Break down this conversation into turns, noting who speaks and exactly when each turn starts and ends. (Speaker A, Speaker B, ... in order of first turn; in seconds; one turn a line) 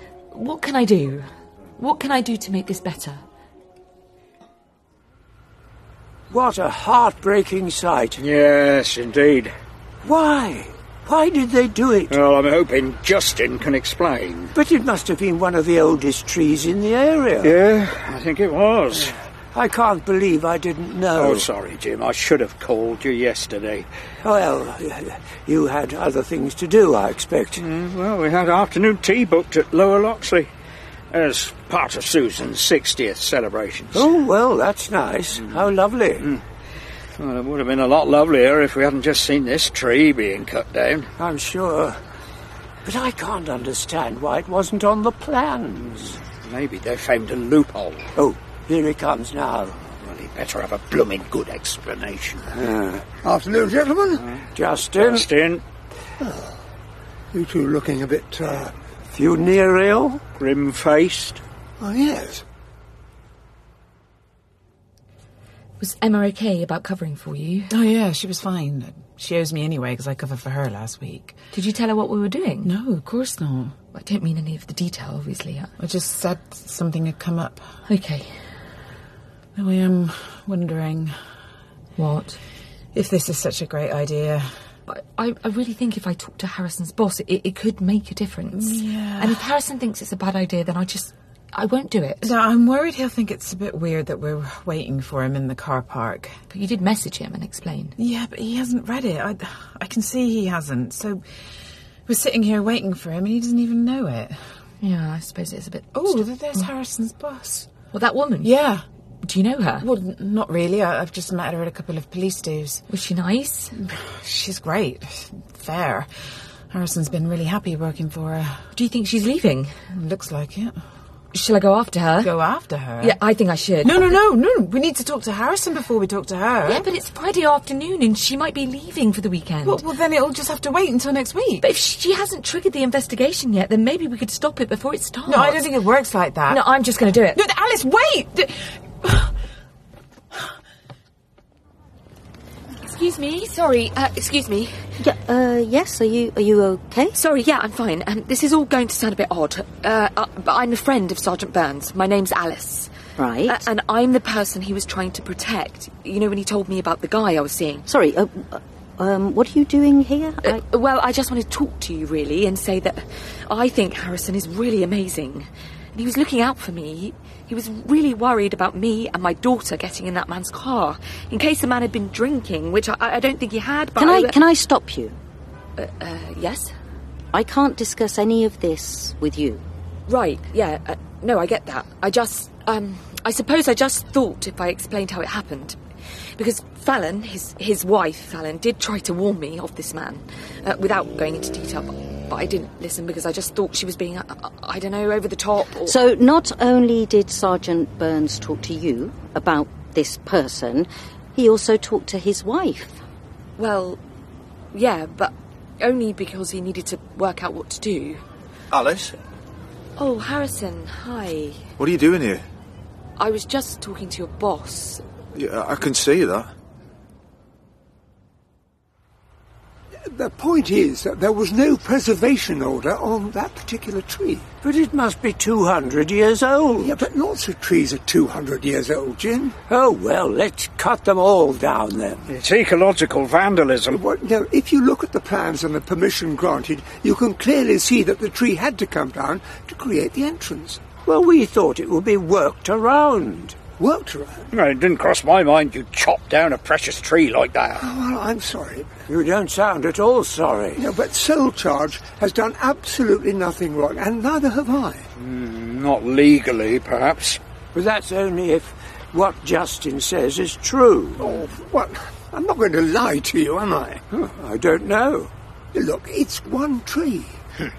Speaker A: 0.3-3.2
Speaker B: 6.3-8.2
Speaker C: 8.2-9.5
Speaker B: 10.0-12.2
Speaker C: 12.1-14.5
Speaker B: 14.5-17.6
Speaker C: 17.4-19.1
Speaker B: 19.5-21.5
Speaker C: 21.1-23.9
Speaker B: 24.2-27.6
Speaker C: 27.6-30.5
Speaker C: 31.1-34.1
Speaker B: 33.9-36.3
Speaker C: 37.2-41.1
Speaker B: 41.2-42.0
Speaker B: 42.9-46.2
Speaker C: 46.4-48.0
Speaker B: 48.2-49.8
Speaker C: 50.0-52.5
Speaker B: 52.6-53.0
Speaker D: 53.2-54.2
Speaker B: 54.5-55.3
Speaker C: 54.9-55.6
Speaker D: 56.2-56.5
Speaker D: 57.3-58.7
Speaker B: 59.1-60.2
Speaker C: 60.4-61.4
Speaker D: 61.8-62.4
Speaker A: 65.8-67.7
Speaker E: 67.7-71.4
Speaker A: 71.5-72.7
Speaker E: 72.6-73.8
Speaker A: 73.9-75.7
Speaker E: 75.8-77.6
Speaker A: 77.9-78.3
Speaker E: 79.6-81.1
Speaker A: 82.0-82.4
Speaker E: 82.9-84.5
Speaker A: 84.9-92.3
Speaker E: 88.5-89.5
Speaker E: 92.2-96.4
Speaker A: 96.5-98.0
Speaker E: 98.0-101.2
Speaker E: 102.1-104.4
Speaker A: 104.8-106.7
Speaker E: 105.9-107.7
Speaker A: 107.9-108.6
Speaker E: 108.4-108.8
Speaker A: 109.2-109.9
Speaker E: 109.8-112.8
Speaker A: 112.9-113.7
Speaker E: 113.8-116.1
Speaker E: 116.7-118.6
Speaker A: 118.7-119.7
Speaker E: 119.9-120.7
Speaker A: 121.3-122.4
Speaker E: 122.2-123.2
Speaker A: 123.0-124.1
Speaker E: 123.8-126.9
Speaker A: 126.7-129.8
Speaker E: 129.6-131.7
Speaker A: 131.6-135.8
Speaker E: 135.3-136.7
Speaker A: 136.5-137.4
Speaker E: 137.3-139.3
Speaker A: 142.8-144.7
Speaker F: 145.0-147.2
Speaker A: 147.1-152.9
Speaker F: 153.2-153.7
Speaker A: 153.5-157.9
Speaker F: 157.9-160.6
Speaker A: 160.4-174.4
Speaker F: 174.0-175.2
Speaker A: 175.8-176.7
Speaker F: 177.3-179.6
Speaker A: 180.1-185.8
Speaker A: 186.4-196.0
Speaker F: 195.8-203.0
Speaker A: 203.6-204.0
Speaker A: 204.7-208.2
Speaker G: 208.7-209.2
Speaker A: 210.0-211.6
Speaker G: 211.8-212.4
Speaker A: 213.2-215.0
Speaker G: 215.3-216.5
Speaker D: 220.1-224.4
Speaker B: 224.6-227.0
Speaker D: 226.8-229.5
Speaker B: 229.7-232.3
Speaker C: 232.3-234.0
Speaker D: 233.9-240.8
Speaker B: 241.1-243.6
Speaker D: 243.8-244.5
Speaker C: 244.5-247.9
Speaker D: 247.8-248.9
Speaker B: 249.1-250.8
Speaker D: 250.8-255.1
Speaker C: 255.2-257.4
Speaker B: 257.7-261.3
Speaker D: 261.2-264.0
Speaker B: 264.1-265.3
Speaker D: 265.7-267.3